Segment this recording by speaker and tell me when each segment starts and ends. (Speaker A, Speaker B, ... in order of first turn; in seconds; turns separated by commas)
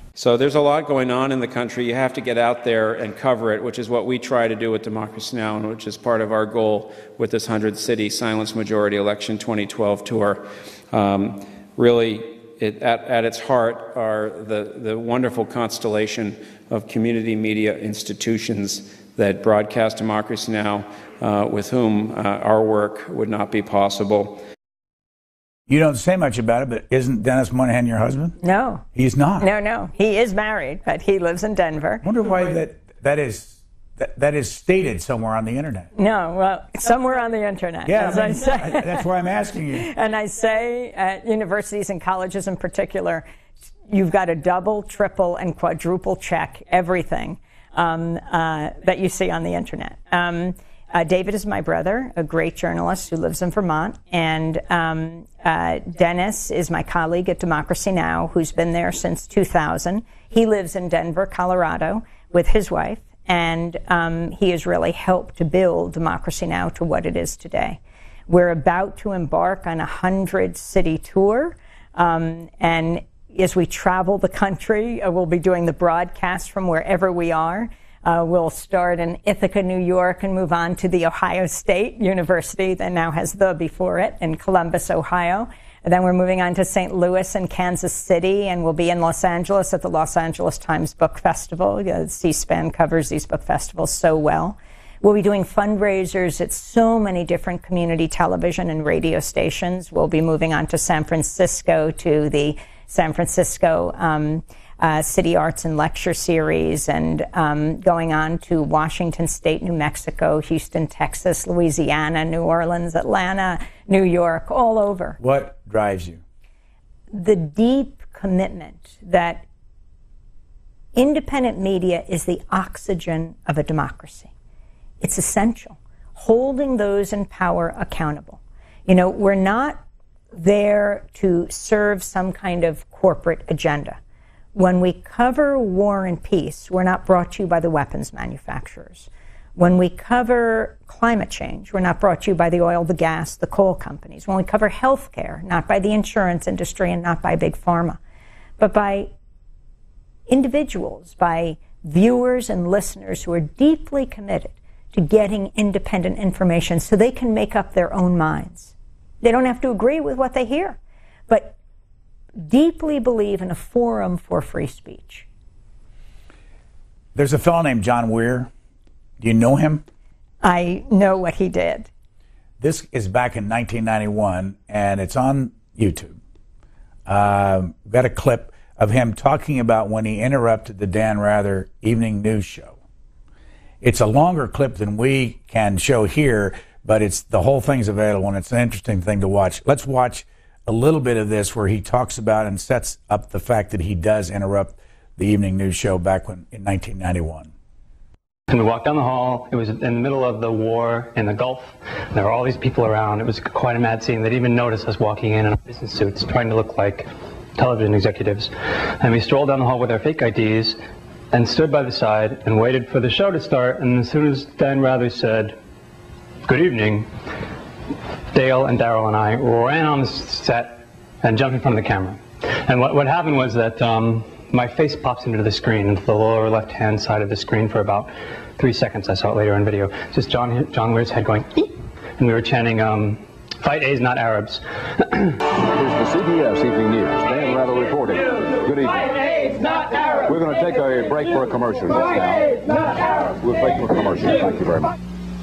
Speaker A: 0.1-24.4, Speaker B: 25.7-28.4, Speaker C: 28.4-28.8, Speaker B: 28.9-29.5, Speaker C: 29.4-32.0, Speaker B: 32.0-35.9, Speaker C: 36.0-39.0, Speaker B: 37.9-39.9, Speaker C: 39.8-43.2, Speaker C: 43.9-115.2, Speaker B: 115.2-116.2, Speaker C: 117.1-119.4, Speaker C: 120.9-124.3, Speaker C: 125.0-129.8, Speaker C: 130.3-134.0, Speaker C: 134.5-148.0, Speaker C: 148.6-149.1, Speaker C: 150.3-160.8, Speaker C: 161.3-161.6, Speaker C: 162.4-165.3, Speaker B: 167.1-168.5, Speaker B: 169.2-169.8, Speaker C: 170.4-171.9, Speaker B: 172.6-176.2, Speaker B: 177.1-182.8, Speaker B: 183.8-197.5, Speaker D: 198.5-210.8, Speaker D: 211.3-215.6, Speaker D: 216.4-217.1, Speaker D: 218.3-235.3, Speaker E: 235.6-244.9